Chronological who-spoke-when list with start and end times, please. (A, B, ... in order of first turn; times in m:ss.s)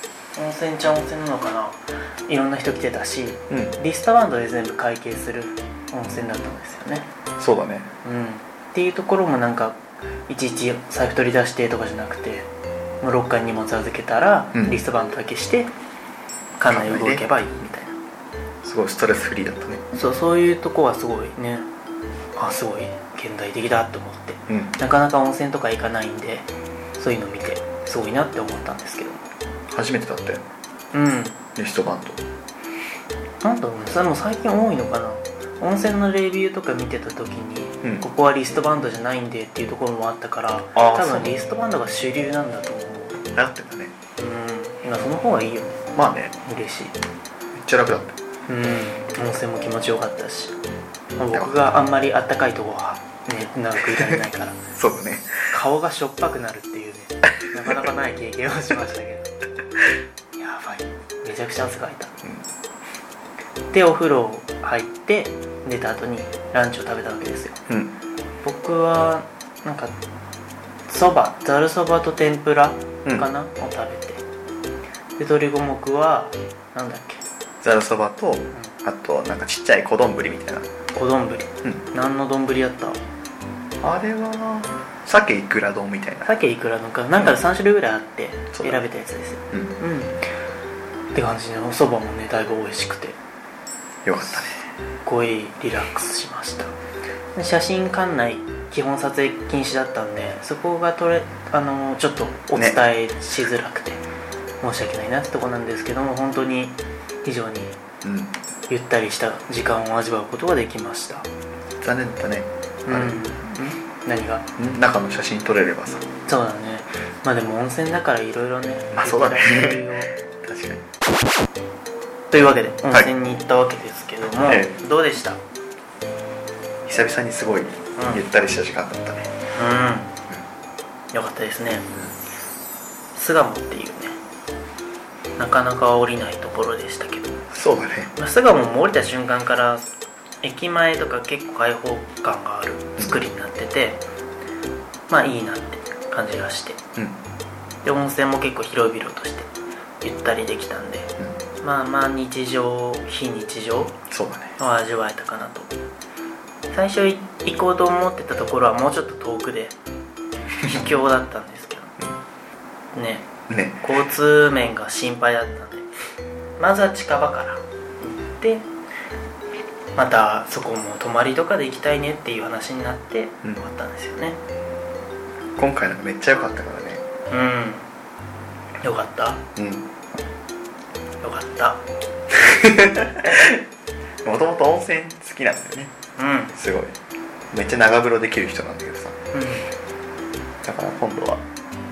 0:00.4-0:07.1 A
0:03.5-0:03.8 B
0:07.4-0:07.9 B
0:08.0-0:12.5 A
0:13.0-0:15.7 A
0:14.5-0:14.8 B
0:16.6-0:18.0 A
0:16.7-0:17.2 B
0:18.6-0:19.8 B
0:19.9-0:21.7 A
0:22.4-0:29.3 A
0:24.5-0:24.7 B
0:29.7-0:30.4 B
0:30.9-0:31.4 A
0:31.6-0:32.2 B
0:33.4-0:43.2 A
0:40.8-0:41.4 B
0:43.3-0:43.9 B
0:44.2-0:45.8 A
0:46.0-0:46.4 B
0:46.4-0:47.0 A
0:47.6-0:48.2 B
0:48.5-0:50.6 A
0:51.2-0:54.6 A
0:51.3-0:51.7 B
0:54.7-0:55.5 B
0:55.5-0:59.3 A
1:00.4-1:02.2 A
1:03.7-1:07.6 A
1:07.7-1:08.0 B
1:08.4-1:10.0 A
1:10.9-1:14.2 A
1:15.2-1:17.2 A
1:17.6-1:20.7 B
1:20.9-1:23.0 A
1:23.8-1:26.3 B
1:26.2-1:30.2 A
1:28.5-1:28.8 B
1:31.1-1:33.2 A
1:34.0-1:34.6 B
1:35.0-1:36.8 A
1:37.4-1:44.0 A
1:42.6-1:42.8 B
1:44.6-1:47.8 A
1:48.0-1:48.3 B
1:48.7-1:51.3 A
1:51.8-1:53.2 B
1:52.9-1:54.5 A
1:54.6-1:56.1 B
1:56.3-2:00.1 A
1:58.9-1:59.9 B
2:00.4-2:00.8 B
2:02.3-2:05.4 A
2:04.5-2:04.8 B
2:06.8-2:09.3 B
2:08.0-2:08.2 A
2:09.6-2:10.2 A
2:11.1-2:11.9 A
2:13.1-2:14.2 A
2:15.4-2:17.4 A
2:17.5-2:18.1 B
2:18.2-2:19.8 A
2:20.4-2:24.0 A
2:25.1-2:26.8 A
2:27.8-2:29.5 A
2:30.0-2:34.0 A
2:34.1-2:34.6 B
2:34.6-2:35.7 A
2:36.7-2:39.8 A
2:40.6-2:42.0 A
2:42.9-2:43.3 A
2:43.5-2:43.8 B
2:43.8-2:45.9 A
2:46.6-2:47.6 A
2:48.3-2:48.7 A
2:50.0-2:54.4 A
2:55.6-2:57.0 B
2:57.3-2:57.9 A
2:58.8-2:59.4 A
2:59.6-2:59.9 B
3:01.2-3:01.8 A
3:02.3-3:03.6 B
3:04.2-3:05.9 B
3:06.2-3:06.6 A
3:06.5-3:07.0 B
3:07.5-3:09.2 B
3:09.3-3:09.7 A
3:10.6-3:11.4 B